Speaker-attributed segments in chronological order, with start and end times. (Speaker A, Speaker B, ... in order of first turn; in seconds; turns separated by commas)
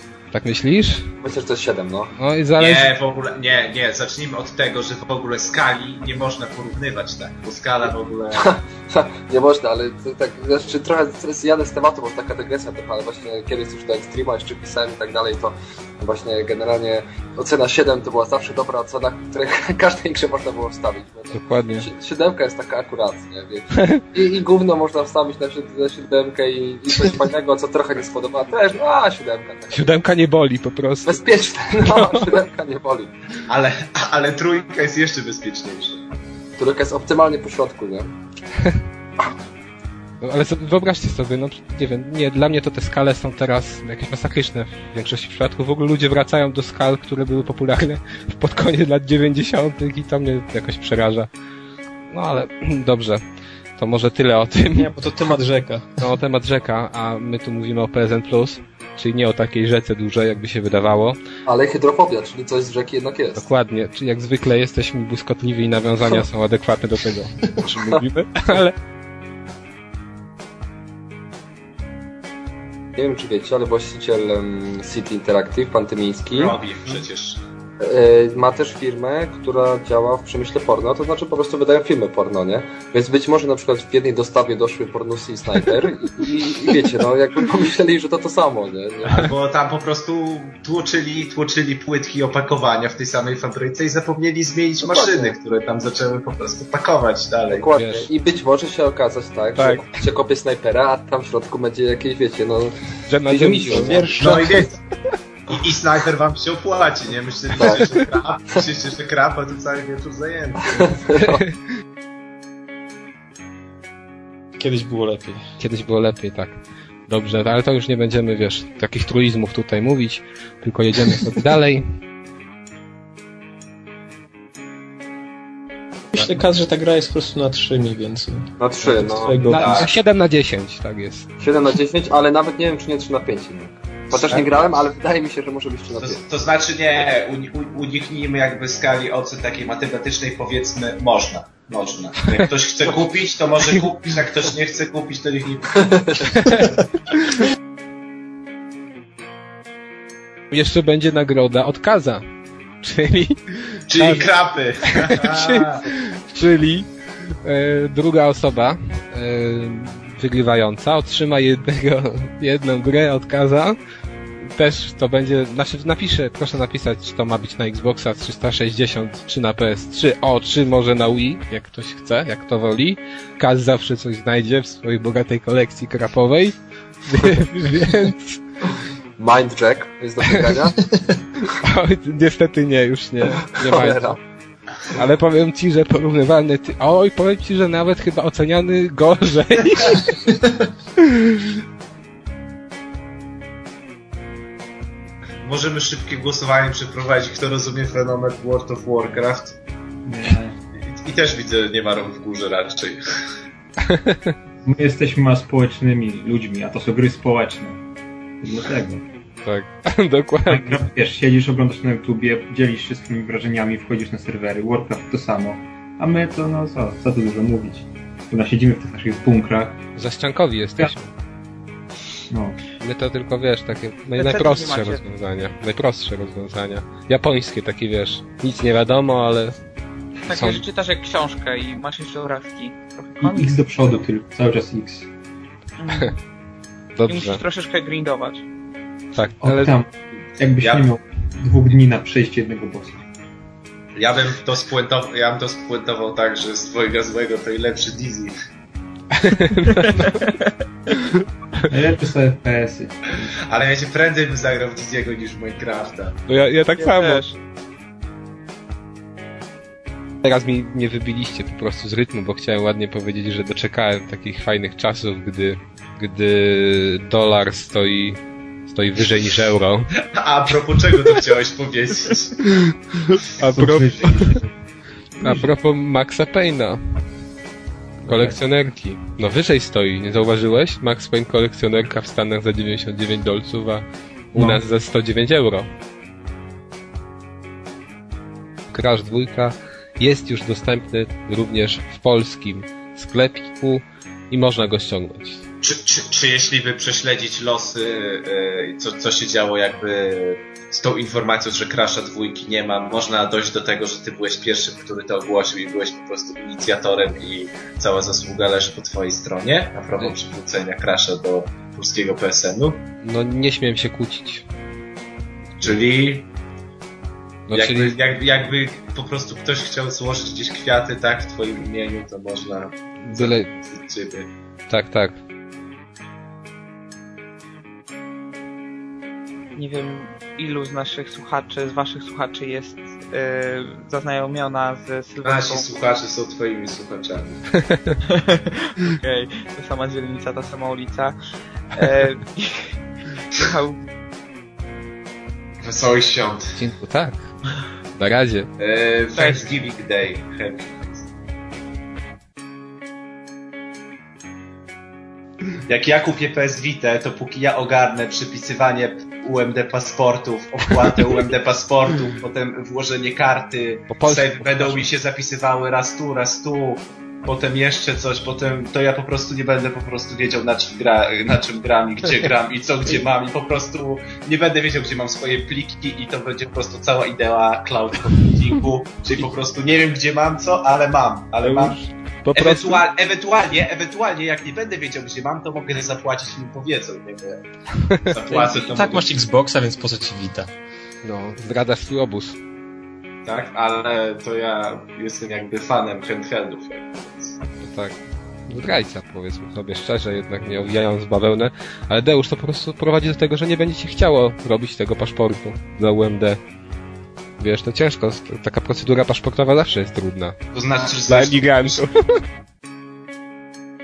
Speaker A: 0.3-1.1, Speaker B: 1.2-2.1, Speaker A: 2.1-2.9, Speaker C: 2.6-8.4, Speaker B: 8.3-29.9, Speaker A: 21.3-21.9, Speaker A: 29.7-31.2, Speaker B: 31.1-33.2, Speaker A: 31.8-32.3, Speaker C: 33.5-36.0, Speaker B: 36.6-38.1, Speaker A: 40.2-51.3, Speaker A: 52.1-53.2, Speaker A: 53.8-54.9, Speaker D: 54.8-55.9, Speaker A: 56.0-61.2, Speaker B: 61.5-63.5, Speaker A: 63.4-68.8, Speaker B: 73.0-76.6, Speaker C: 76.3-77.4, Speaker B: 77.8-89.3, Speaker C: 89.1-97.7, Speaker B: 94.8-95.3, Speaker B: 97.5-102.8, Speaker A: 97.7-98.1, Speaker A: 99.6-100.0, Speaker A: 103.1-104.6, Speaker B: 103.3-104.2, Speaker C: 104.2-104.8, Speaker C: 105.5-111.0, Speaker B: 107.6-107.9, Speaker B: 110.7-111.4, Speaker A: 111.2-111.5, Speaker D: 114.6-115.4, Speaker A: 115.6-121.9, Speaker D: 126.1-129.9, Speaker B: 128.6-129.4, Speaker C: 129.5-129.9, Speaker A: 129.5-131.3, Speaker B: 131.4-136.2, Speaker C: 134.1-134.7, Speaker C: 136.0-146.1, Speaker A: 146.4-146.7, Speaker A: 150.5-152.2, Speaker A: 152.8-154.3, Speaker C: 153.9-155.8, Speaker A: 154.9-156.9, Speaker A: 157.4-163.8, Speaker A: 164.4-178.4, Speaker B: 179.2-180.9, Speaker A: 181.6-184.2, Speaker B: 183.5-184.2, Speaker A: 184.9-190.2, Speaker C: 195.4-199.6, Speaker E: 200.1-200.6, Speaker C: 200.8-203.0, Speaker A: 203.9-204.3, Speaker E: 204.7-207.8, Speaker E: 208.4-209.0, Speaker A: 209.4-210.9, Speaker E: 210.5-219.8, Speaker A: 220.0-221.1, Speaker E: 222.3-222.6, Speaker A: 222.8-229.6, Speaker F: 224.2-225.0, Speaker F: 230.3-234.0, Speaker A: 230.3-230.6, Speaker E: 233.2-235.1, Speaker F: 235.8-236.2, Speaker A: 237.0-237.4, Speaker F: 237.1-238.4, Speaker A: 239.2-239.8, Speaker E: 239.4-243.0, Speaker C: 240.6-240.9, Speaker C: 244.0-248.3, Speaker A: 249.1-250.2, Speaker E: 251.7-253.3, Speaker C: 253.5-256.2, Speaker A: 256.3-257.2, Speaker F: 256.8-257.4, Speaker A: 260.2-269.9, Speaker C: 270.2-272.4, Speaker A: 273.1-274.4, Speaker E: 273.6-274.4, Speaker A: 275.2-276.8, Speaker A: 278.1-285.7, Speaker E: 284.4-284.6, Speaker A: 288.7-295.4, Speaker C: 295.6-312.8, Speaker A: 313.0-314.4, Speaker C: 315.6-316.3, Speaker A: 317.5-318.0, Speaker C: 317.5-324.3, Speaker A: 323.0-323.5, Speaker A: 324.7-325.2, Speaker F: 329.6-335.7, Speaker C: 335.2-337.4, Speaker A: 337.7-338.0, Speaker F: 338.1-341.2, Speaker F: 341.7-342.7, Speaker F: 343.3-343.8, Speaker C: 345.6-346.6, Speaker A: 346.6-347.3, Speaker A: 347.9-348.5, Speaker C: 348.6-351.1, Speaker F: 349.1-349.5, Speaker C: 355.7-381.8, Speaker A: 363.9-364.9, Speaker A: 381.4-382.9, Speaker C: 382.3-387.4, Speaker C: 388.1-389.1, Speaker D: 388.3-390.5, Speaker A: 391.0-392.4, Speaker C: 393.2-397.4, Speaker A: 397.6-406.4, Speaker A: 407.4-410.4, Speaker C: 410.5-411.8, Speaker A: 411.1-412.1